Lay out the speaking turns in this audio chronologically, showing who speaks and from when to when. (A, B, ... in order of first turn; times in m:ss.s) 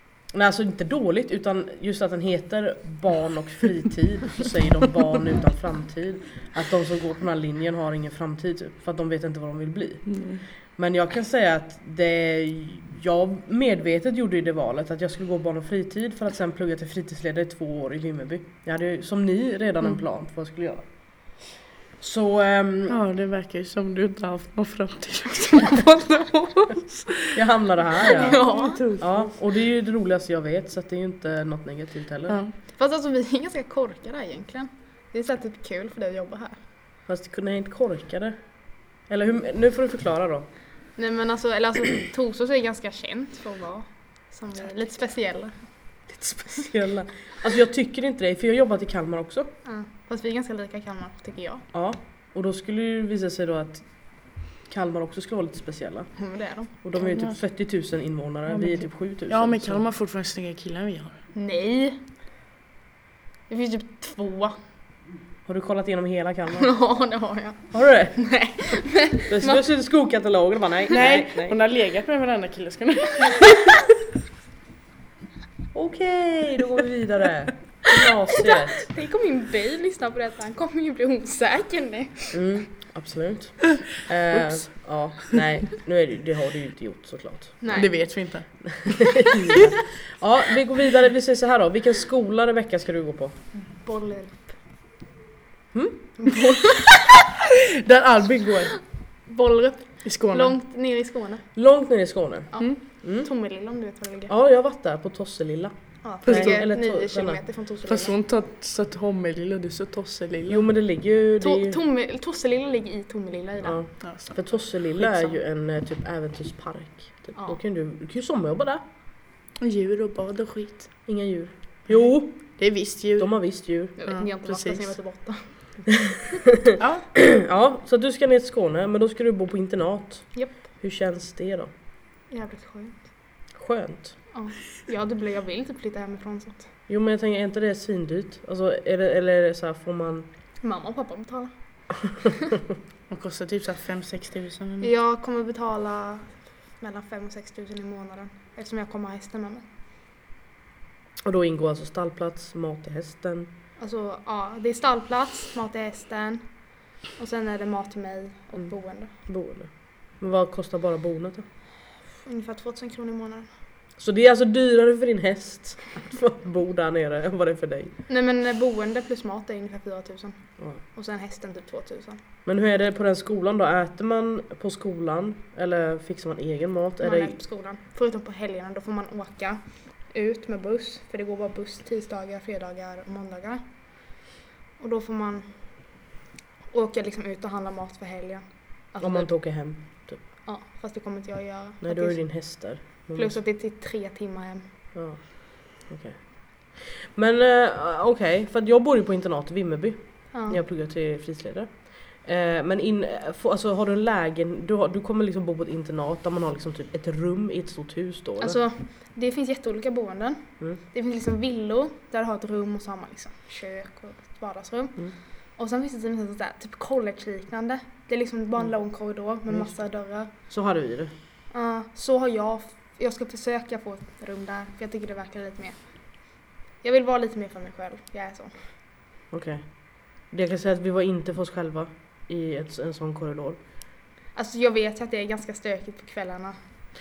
0:00.3-0:21.4 A
0:10.0-0:10.4 B
0:22.0-0:23.0 A
0:22.9-0:27.4 B
0:27.3-0:32.4 A
0:28.0-0:29.3 B
0:28.0-0:28.8 C
0:32.3-0:32.5 B
0:32.7-0:36.6 C
0:37.0-0:40.5 A
0:40.9-0:45.7 C
0:46.1-0:49.5 A
0:49.6-0:51.6 C
0:51.7-0:59.8 A
0:56.1-0:56.7 C
0:57.0-0:57.4 B
0:58.5-1:01.2 B
1:01.3-1:02.1 C
1:03.5-1:04.6 C
1:05.4-1:06.8 A
1:06.6-1:09.6 C
1:07.7-1:08.3 A
1:09.3-1:11.6 A
1:10.9-1:13.8 B
1:15.7-1:18.8 A
1:18.4-1:22.4 C
1:22.3-1:27.6 A
1:27.6-1:27.9 C
1:27.7-1:29.2 B
1:28.9-1:33.3 A
1:33.7-1:34.6 C
1:35.7-1:36.2 A
1:36.2-1:36.8 C
1:37.8-1:38.8 B
1:39.2-1:41.4 C
1:40.0-1:40.6 B
1:41.5-1:43.3 A
1:42.5-1:44.3 C
1:44.3-1:47.4 A
1:46.0-1:48.2 C
1:46.2-1:46.6 B
1:47.8-1:50.7 B
1:50.5-1:51.8 A
1:51.4-1:53.8 C
1:53.6-1:58.8 A
1:54.0-1:55.3 B
1:59.6-2:01.2 B
2:01.0-2:04.1 A
2:01.9-2:05.3 B
2:04.0-2:06.1 C
2:06.8-2:07.1 B
2:07.1-2:11.7 A
2:10.3-2:10.6 C
2:12.3-2:13.1 C
2:13.6-2:14.2 A
2:14.3-2:16.7 C
2:16.9-2:20.3 A
2:20.6-2:22.1 C
2:23.1-2:24.9 B
2:24.8-2:29.6 C
2:31.2-2:33.5 A
2:33.8-2:39.1 C
2:38.6-2:41.4 A
2:42.2-2:43.5 C
2:44.0-2:47.9 A
2:48.1-2:52.2 C
2:52.4-2:57.4 A
2:57.0-3:03.6 C
3:04.8-3:06.1 C
3:06.7-3:09.4 C
3:09.0-3:10.2 A
3:10.4-3:14.7 C
3:11.8-3:13.4 A
3:14.9-3:28.6 A
3:20.3-3:20.6 C
3:28.4-3:40.3 C
3:39.0-3:41.1 A
3:41.5-3:48.7 C
3:49.3-3:53.6 A
3:54.3-3:56.6 C